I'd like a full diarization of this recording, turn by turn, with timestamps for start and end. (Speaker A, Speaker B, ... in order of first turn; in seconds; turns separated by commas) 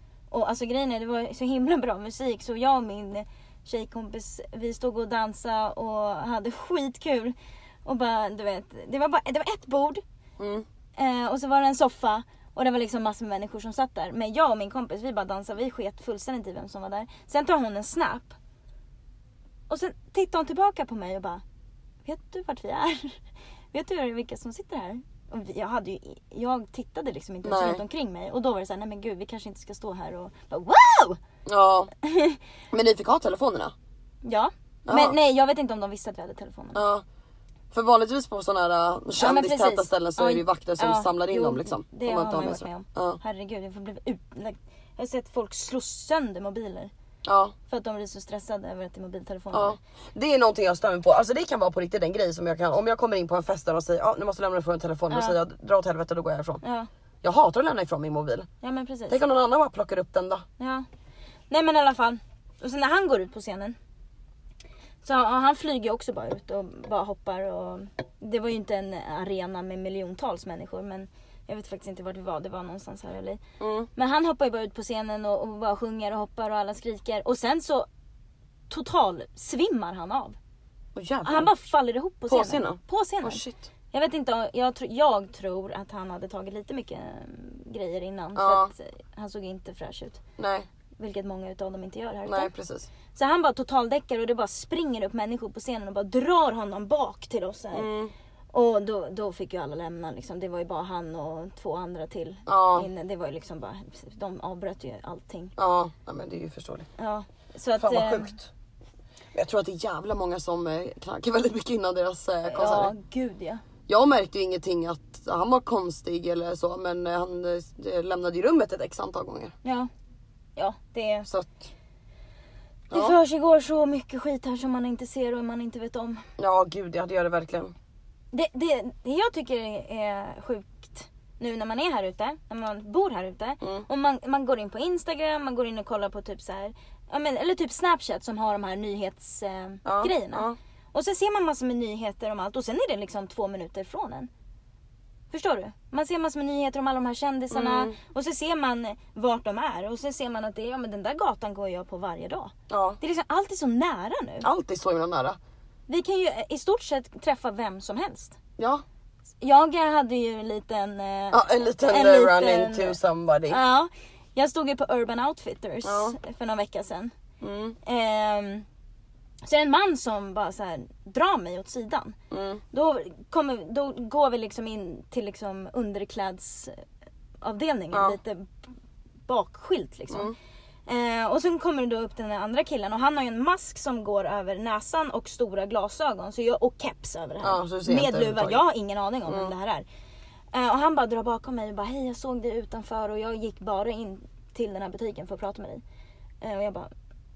Speaker A: 0.3-10.0, Speaker B: 10.4-10.6, Speaker A: 10.9-18.3, Speaker A: 19.7-21.4, Speaker A: 22.0-23.2, Speaker A: 23.7-31.2, Speaker B: 27.4-27.8, Speaker B: 31.4-31.9, Speaker A: 32.0-32.4, Speaker B: 32.7-33.7, Speaker A: 34.2-36.8, Speaker B: 34.9-35.2, Speaker B: 36.7-37.0, Speaker B: 37.7-43.2, Speaker A: 39.1-46.9, Speaker B: 47.2-47.5, Speaker A: 47.7-49.8, Speaker B: 49.5-56.6, Speaker A: 55.1-55.4, Speaker A: 56.6-56.9, Speaker B: 57.2-58.5, Speaker A: 58.6-59.2, Speaker B: 59.1-60.4, Speaker A: 60.6-60.9, Speaker A: 61.5-63.8, Speaker A: 65.0-73.4, Speaker B: 73.6-73.9, Speaker A: 73.9-77.9, Speaker A: 78.7-80.4, Speaker B: 80.9-81.5, Speaker A: 81.2-90.2, Speaker B: 82.3-83.7, Speaker B: 88.3-88.7, Speaker B: 90.4-90.7, Speaker A: 91.0-92.5, Speaker B: 92.2-92.9, Speaker A: 93.1-97.9, Speaker B: 97.7-98.1, Speaker A: 98.5-105.5, Speaker B: 102.5-102.9, Speaker B: 105.6-106.9, Speaker A: 107.0-108.3, Speaker B: 107.8-108.5, Speaker B: 109.3-112.9, Speaker A: 112.5-113.6, Speaker B: 113.9-119.5, Speaker A: 119.6-119.9, Speaker A: 120.5-121.3, Speaker B: 121.3-121.7, Speaker B: 122.9-123.2, Speaker A: 122.9-126.2, Speaker B: 126.4-127.7, Speaker A: 128.3-144.3, Speaker B: 133.6-133.8, Speaker B: 139.8-140.6, Speaker A: 145.3-154.5, Speaker B: 147.5-147.9, Speaker B: 152.7-153.0, Speaker B: 154.4-155.4, Speaker A: 155.9-158.4, Speaker B: 158.6-158.8, Speaker A: 159.4-163.0, Speaker B: 161.3-163.6, Speaker A: 163.5-167.1, Speaker B: 165.8-166.2, Speaker B: 167.4-167.8, Speaker A: 167.8-168.7, Speaker A: 169.4-172.2, Speaker B: 172.3-172.6, Speaker A: 172.7-176.8, Speaker A: 177.4-178.5, Speaker B: 177.9-178.2, Speaker A: 179.3-180.3, Speaker B: 180.1-180.3, Speaker A: 180.9-189.8, Speaker B: 187.4-188.6, Speaker B: 189.3-189.5, Speaker A: 190.5-195.8, Speaker A: 196.4-196.9